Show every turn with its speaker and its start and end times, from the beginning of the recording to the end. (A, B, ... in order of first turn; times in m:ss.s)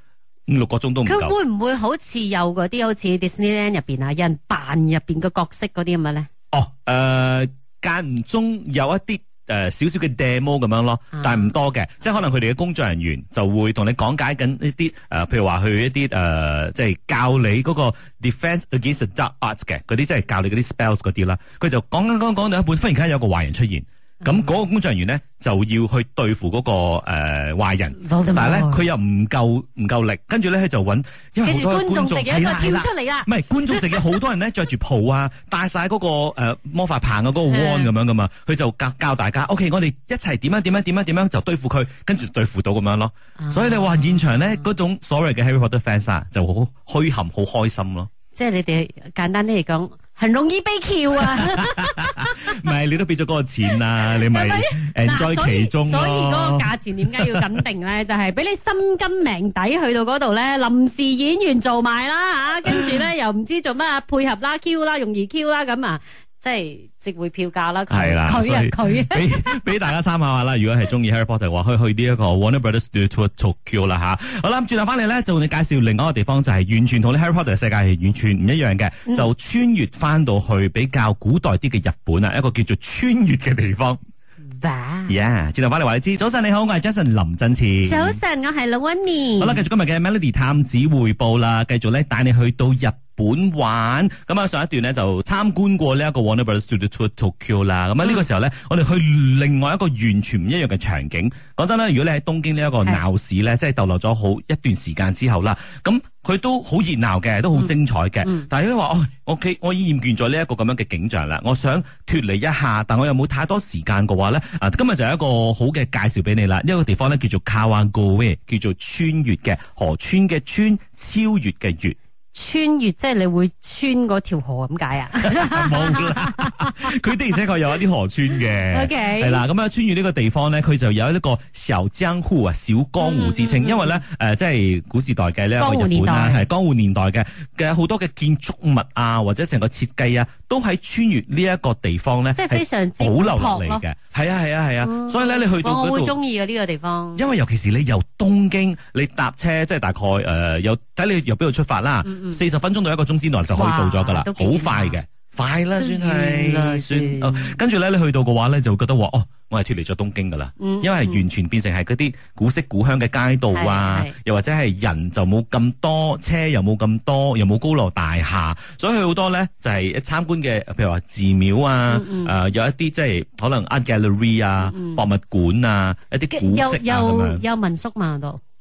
0:00.5-0:01.3 A
0:01.0-0:06.3 B
0:06.5-0:48.1 A
0:11.2-0:11.5 B
0:28.0-0:28.9 B
0:31.4-0:34.2 B
0:37.5-0:37.9 B
0:43.4-0:44.4 B
0:48.3-0:52.6 B
0:51.4-0:57.5 A
0:53.7-1:09.6 B
1:07.9-1:24.0 A
1:24.5-1:25.1 B
1:25.1-1:28.2 A
1:27.8-1:29.6 B
1:29.4-2:02.0 A
2:02.3-2:06.9 B
2:05.2-2:26.1 A
2:08.7-2:09.4 B
2:13.0-2:14.0 B
2:15.6-2:16.5 B
2:22.3-2:23.8 B
2:24.8-2:27.2 B
2:27.2-2:57.4 A
2:32.0-2:32.4 B
2:33.5-2:35.0 B
2:35.8-2:37.6 B
2:40.6-2:41.2 B
2:43.5-2:44.2 B
2:51.9-2:52.3 B
2:54.6-2:55.0 B
2:56.3-2:58.4 B